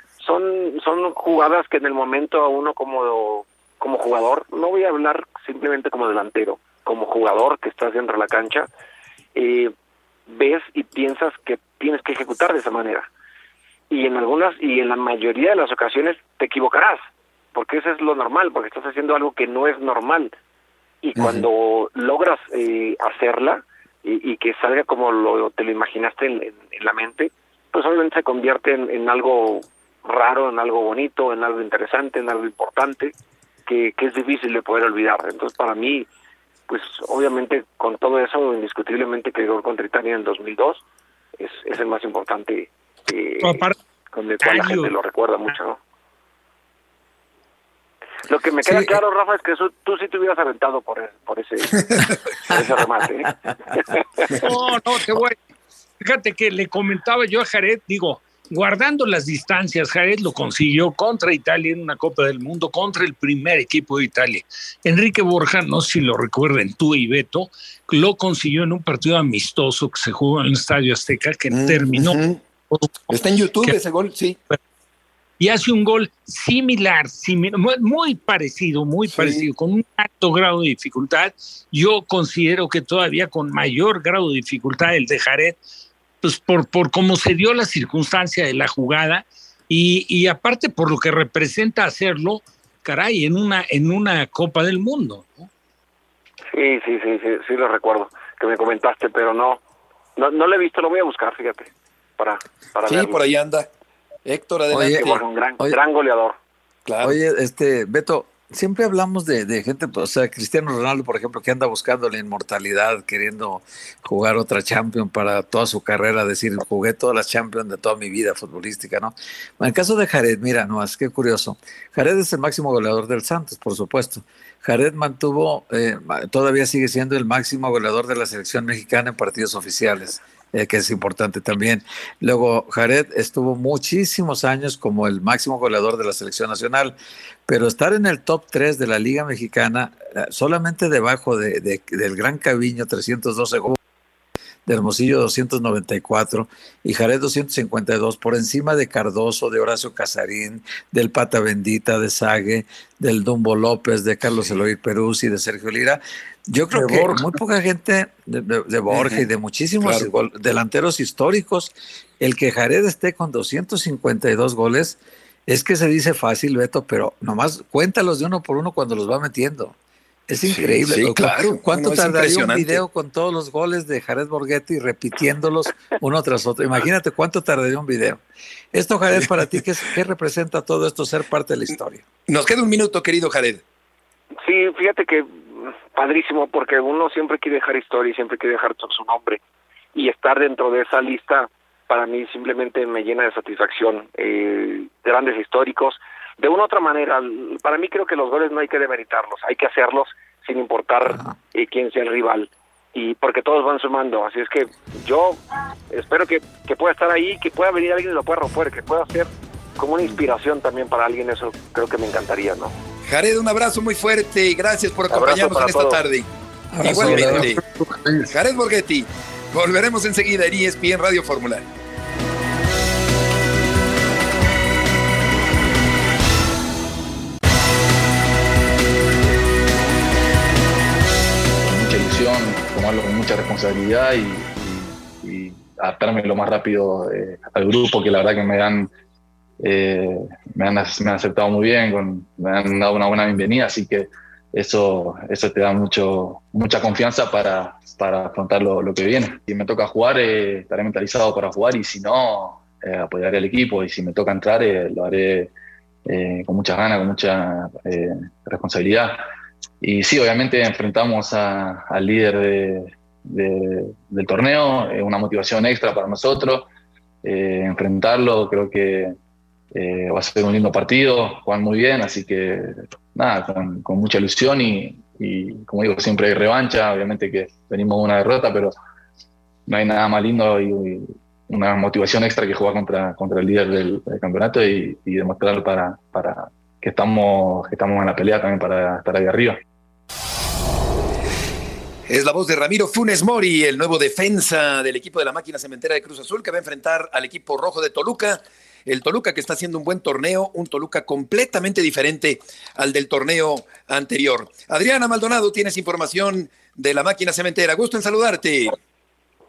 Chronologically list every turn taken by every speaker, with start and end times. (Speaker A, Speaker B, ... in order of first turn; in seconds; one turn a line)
Speaker A: 0.2-8.7
Speaker A: 9.3-9.7
Speaker A: 10.3-13.1
Speaker A: 13.9-20.3
Speaker A: 21.0-33.1
Speaker B: 21.2-21.5
Speaker A: 33.7-36.1
Speaker A: 36.7-40.8
Speaker A: 41.4-45.8
Speaker C: 43.4-43.8
Speaker C: 44.4-44.9
Speaker A: 48.2-54.4
Speaker C: 54.4-55.4
Speaker C: 56.0-72.2
Speaker B: 71.5-72.4
Speaker B: 73.1-74.4
Speaker C: 75.4-85.6
Speaker B: 79.1-79.5
Speaker C: 86.2-95.5
Speaker A: 96.5-99.6
Speaker A: 100.2-103.2
Speaker B: 102.9-103.7
Speaker B: 104.3-105.2
Speaker D: 104.7-105.0
Speaker A: 104.7-106.4
Speaker B: 106.9-107.2
Speaker D: 107.0-136.9
Speaker D: 137.5-143.8
Speaker D: 144.7-169.8
Speaker B: 154.3-154.6
Speaker B: 156.7-157.4
Speaker B: 158.9-159.3
Speaker B: 159.8-160.1
Speaker D: 170.3-182.0
Speaker B: 170.4-172.8
Speaker B: 182.3-183.6
Speaker A: 184.4-189.4
Speaker A: 189.9-212.8
Speaker B: 213.1-216.3
Speaker A: 215.1-216.0
Speaker D: 216.7-217.6
Speaker B: 216.8-217.6
Speaker B: 218.2-221.7
Speaker E: 231.6-238.9
Speaker E: 239.6-255.5
Speaker E: 256.1-259.2
Speaker E: 259.8-266.7
Speaker E: 267.2-269.2
Speaker E: 269.7-278.8
Speaker E: 279.7-289.6
Speaker B: 292.1-308.8